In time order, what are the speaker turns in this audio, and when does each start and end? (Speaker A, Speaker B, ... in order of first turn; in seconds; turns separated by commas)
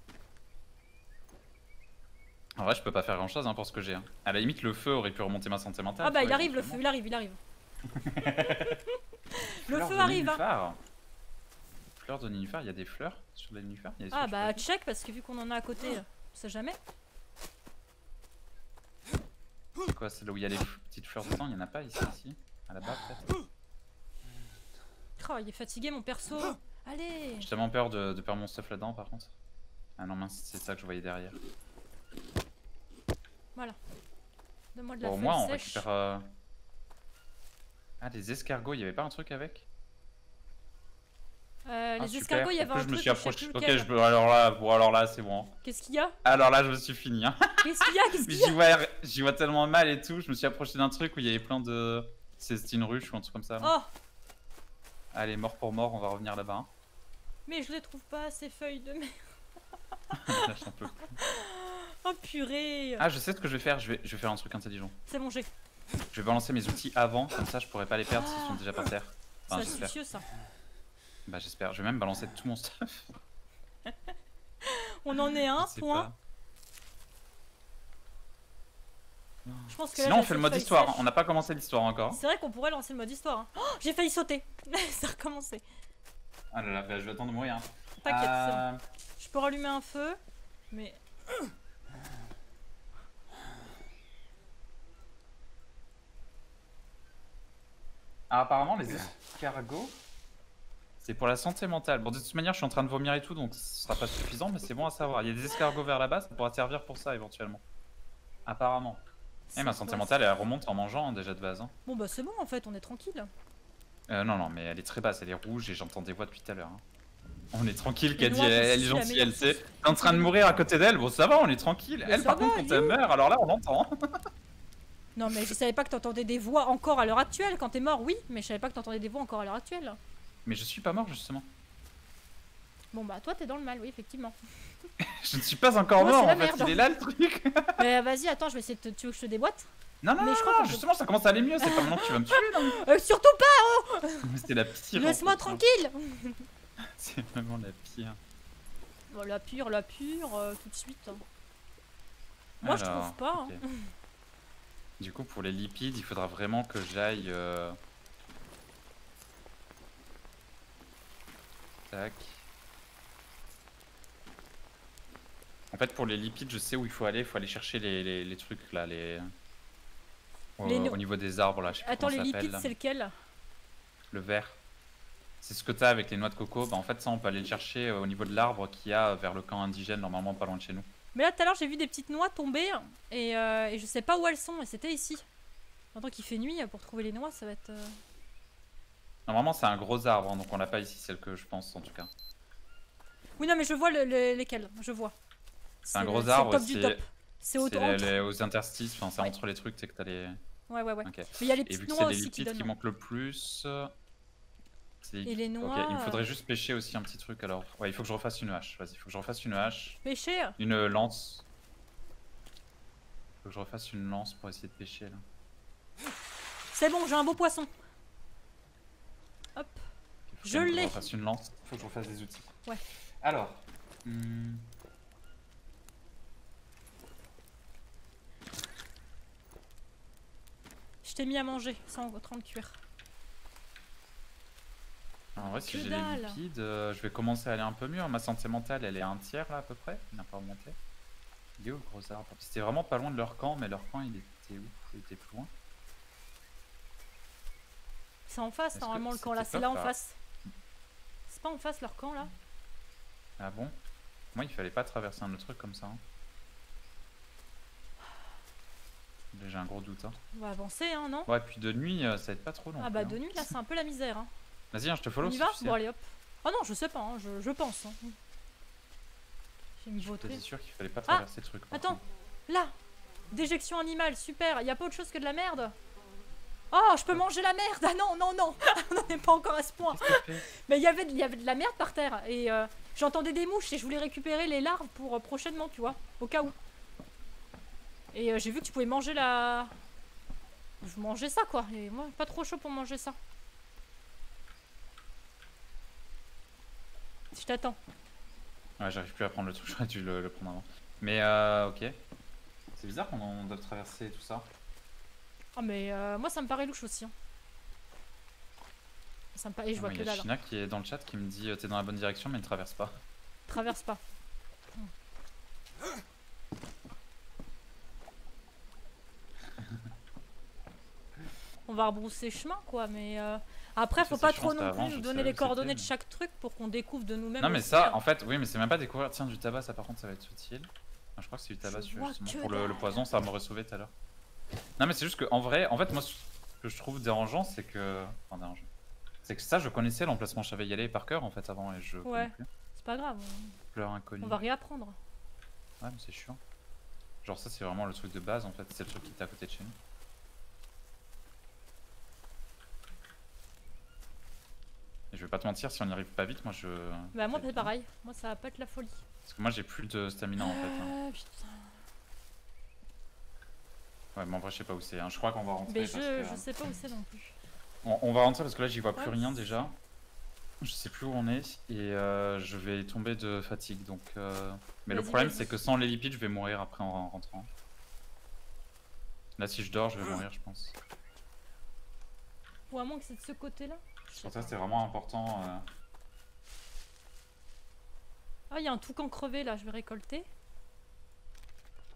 Speaker A: 2.6-6.8, Speaker B: 6.0-7.4, Speaker A: 7.9-8.8, Speaker B: 8.2-10.4, Speaker A: 9.7-10.8, Speaker A: 12.0-14.6, Speaker B: 14.1-16.8, Speaker A: 19.9-23.3, Speaker B: 25.2-27.5, Speaker A: 27.4-29.3, Speaker A: 30.0-31.4, Speaker B: 34.7-35.9, Speaker A: 35.0-36.3, Speaker A: 38.0-39.7, Speaker B: 41.7-43.9, Speaker A: 42.0-45.5, Speaker B: 45.6-46.2, Speaker A: 46.2-53.7, Speaker B: 47.6-48.6, Speaker B: 53.6-53.9, Speaker A: 55.1-56.7, Speaker B: 57.5-59.2, Speaker A: 60.1-61.2, Speaker B: 61.2-63.0, Speaker A: 63.0-65.0, Speaker B: 65.1-65.5, Speaker A: 66.1-70.0, Speaker B: 68.1-68.6, Speaker B: 69.5-70.2, Speaker A: 71.3-73.1, Speaker B: 74.6-76.1, Speaker A: 75.6-76.2, Speaker A: 79.5-82.2, Speaker B: 79.7-81.0, Speaker B: 82.1-85.6, Speaker A: 86.5-88.8, Speaker B: 88.0-88.6, Speaker B: 89.2-90.2, Speaker B: 90.7-91.0, Speaker A: 98.3-100.0, Speaker A: 101.0-107.6, Speaker A: 108.5-109.0, Speaker B: 109.5-110.1, Speaker A: 109.6-111.7, Speaker B: 111.9-113.3, Speaker A: 114.1-116.8, Speaker A: 117.5-124.2, Speaker B: 118.2-120.3, Speaker B: 122.0-123.0, Speaker B: 125.2-130.0, Speaker A: 130.5-131.5, Speaker B: 132.9-134.4, Speaker A: 135.0-137.8, Speaker B: 136.0-136.9, Speaker B: 137.8-139.7, Speaker A: 140.0-142.8, Speaker B: 140.2-140.8, Speaker B: 141.6-144.3, Speaker A: 144.2-145.6, Speaker B: 144.9-146.4, Speaker A: 146.9-148.2, Speaker B: 149.1-151.2, Speaker A: 152.6-153.6, Speaker B: 152.6-153.8, Speaker A: 155.0-157.8, Speaker A: 161.9-162.4, Speaker A: 165.7-169.3, Speaker A: 170.6-172.7, Speaker B: 170.6-171.0, Speaker B: 171.7-173.1, Speaker A: 174.1-174.6, Speaker A: 175.4-180.9, Speaker B: 181.1-185.2, Speaker B: 185.9-188.0, Speaker A: 189.3-192.1, Speaker B: 193.4-195.2, Speaker B: 195.8-198.1, Speaker A: 195.9-197.0, Speaker A: 197.6-200.4, Speaker B: 200.7-202.7, Speaker A: 201.0-203.9, Speaker A: 205.0-210.0, Speaker B: 205.2-206.3, Speaker B: 210.0-210.6, Speaker A: 210.6-211.4, Speaker A: 213.4-215.2, Speaker B: 216.7-217.7, Speaker B: 219.6-219.8, Speaker A: 220.3-222.5, Speaker B: 220.4-221.0, Speaker A: 223.2-224.7, Speaker B: 231.0-232.8, Speaker A: 235.4-240.8, Speaker B: 235.4-236.4, Speaker A: 241.6-245.5, Speaker B: 248.3-250.2, Speaker A: 248.8-249.9, Speaker B: 251.3-252.3, Speaker A: 253.4-253.8, Speaker A: 254.3-256.0, Speaker A: 259.3-260.2, Speaker B: 260.3-261.3, Speaker A: 261.3-263.5, Speaker B: 262.8-264.3, Speaker A: 264.7-265.8, Speaker B: 265.2-268.1, Speaker B: 269.8-270.4, Speaker A: 270.0-272.0, Speaker B: 271.1-272.7, Speaker B: 273.3-275.8, Speaker B: 276.7-286.6, Speaker A: 279.9-280.5, Speaker B: 288.1-289.7, Speaker B: 290.8-293.2, Speaker B: 297.3-297.8, Speaker A: 298.8-302.0, Speaker A: 302.8-304.5, Speaker B: 305.6-307.1, Speaker B: 309.4-310.3, Speaker A: 309.8-313.0, Speaker B: 313.5-314.0, Speaker B: 321.7-328.0, Speaker A: 324.0-325.9, Speaker A: 327.4-333.9, Speaker B: 331.6-333.1, Speaker A: 334.8-338.7, Speaker A: 339.2-342.5, Speaker B: 342.1-343.6, Speaker A: 343.7-344.4, Speaker B: 344.2-345.0, Speaker A: 345.8-346.4, Speaker A: 347.2-349.8, Speaker A: 355.1-357.7, Speaker B: 357.1-359.0, Speaker A: 359.2-360.9, Speaker B: 360.4-361.7, Speaker A: 364.1-366.5, Speaker B: 365.7-367.4, Speaker A: 367.8-369.8, Speaker B: 369.0-369.4, Speaker A: 370.6-377.5, Speaker B: 374.9-375.6, Speaker A: 379.4-380.8, Speaker B: 382.7-384.6, Speaker A: 384.2-385.6, Speaker B: 388.5-390.3